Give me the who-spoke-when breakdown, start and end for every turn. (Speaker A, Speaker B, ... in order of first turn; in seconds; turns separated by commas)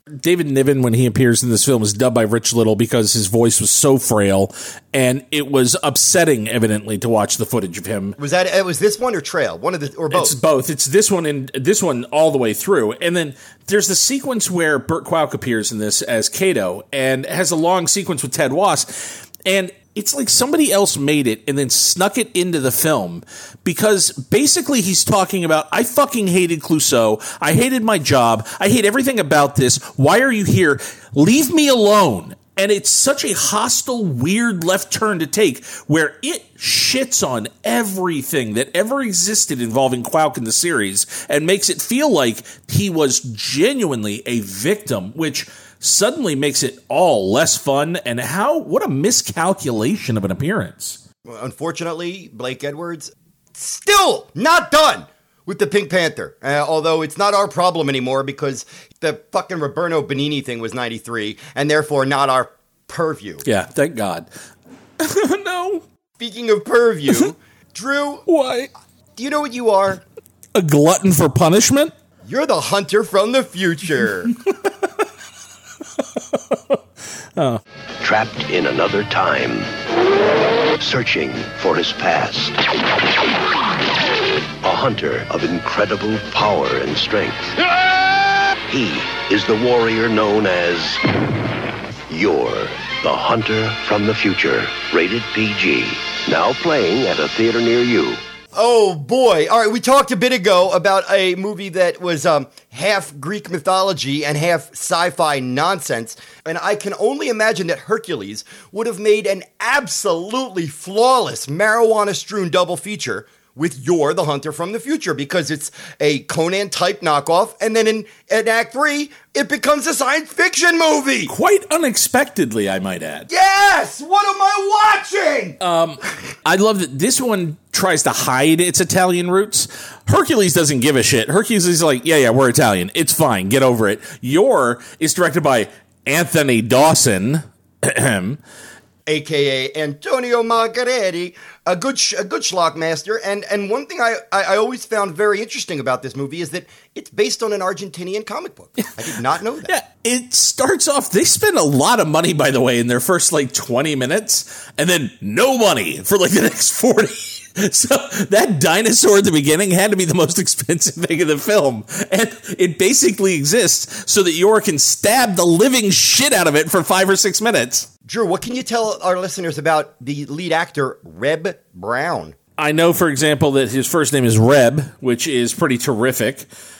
Speaker A: 0.2-8.2, Speaker B: 8.2-10.3, Speaker A: 10.1-51.0, Speaker B: 51.2-63.4, Speaker A: 63.4-64.3, Speaker A: 65.0-65.8, Speaker B: 66.2-68.2, Speaker A: 68.3-68.7, Speaker B: 69.2-70.0, Speaker A: 70.5-71.9, Speaker B: 72.2-74.3, Speaker C: 78.0-79.7, Speaker C: 80.8-82.6, Speaker C: 84.6-87.6, Speaker C: 88.7-91.0, Speaker C: 92.1-98.2, Speaker B: 98.5-121.3, Speaker A: 121.2-123.3, Speaker B: 123.3-125.6, Speaker A: 125.6-138.4, Speaker B: 139.1-149.7, Speaker A: 149.6-167.9, Speaker B: 168.1-172.3, Speaker A: 172.6-176.5